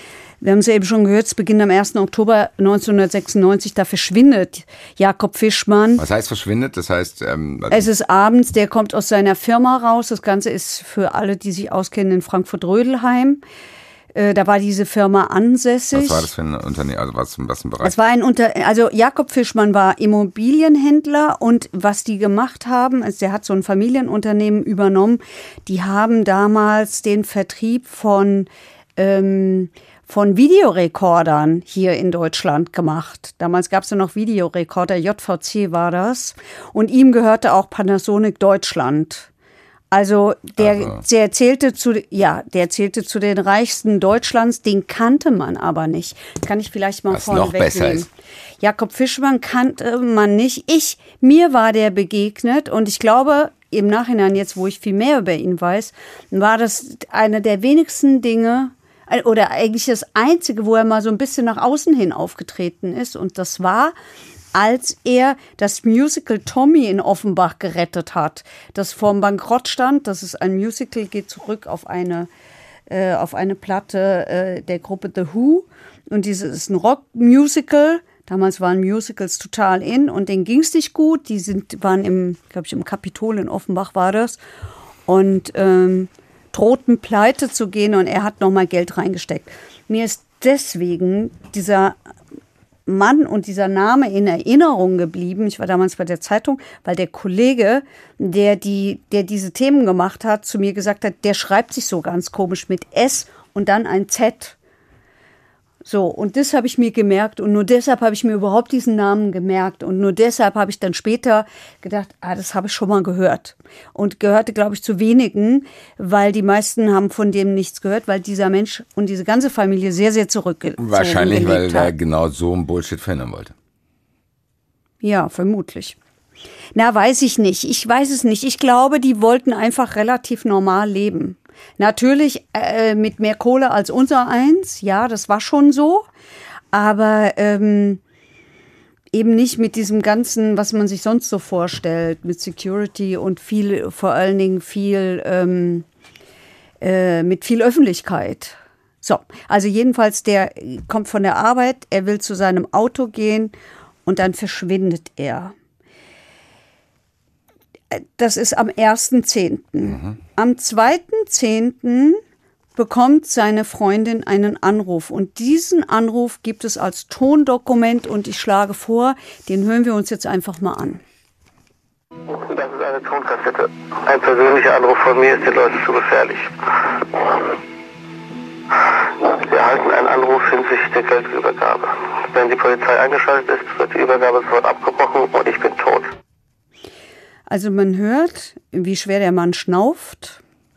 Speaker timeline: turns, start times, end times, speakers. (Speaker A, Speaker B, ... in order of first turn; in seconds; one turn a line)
Speaker A: 0.4-6.0
Speaker B: 6.0-7.9
Speaker A: 7.7-13.4
Speaker A: 14.1-16.3
Speaker B: 15.9-18.0
Speaker A: 17.8-39.3
Speaker A: 39.9-48.1
Speaker B: 40.6-41.0
Speaker B: 47.1-48.1
Speaker A: 48.6-64.0
Speaker A: 64.5-72.3
Speaker A: 72.9-84.4
Speaker A: 85.1-92.0
Speaker A: 92.9-104.6
Speaker A: 105.8-121.9
Speaker B: 120.8-123.5
Speaker A: 125.0-126.0
Speaker A: 126.8-136.1
Speaker A: 136.7-138.0
Speaker A: 139.1-145.9
Speaker A: 146.8-153.5
Speaker A: 154.1-155.5
Speaker A: 157.9-162.2
Speaker B: 159.8-160.2
Speaker A: 162.8-171.0
Speaker C: 172.3-177.6
Speaker C: 178.7-186.1
Speaker A: 187.5-190.4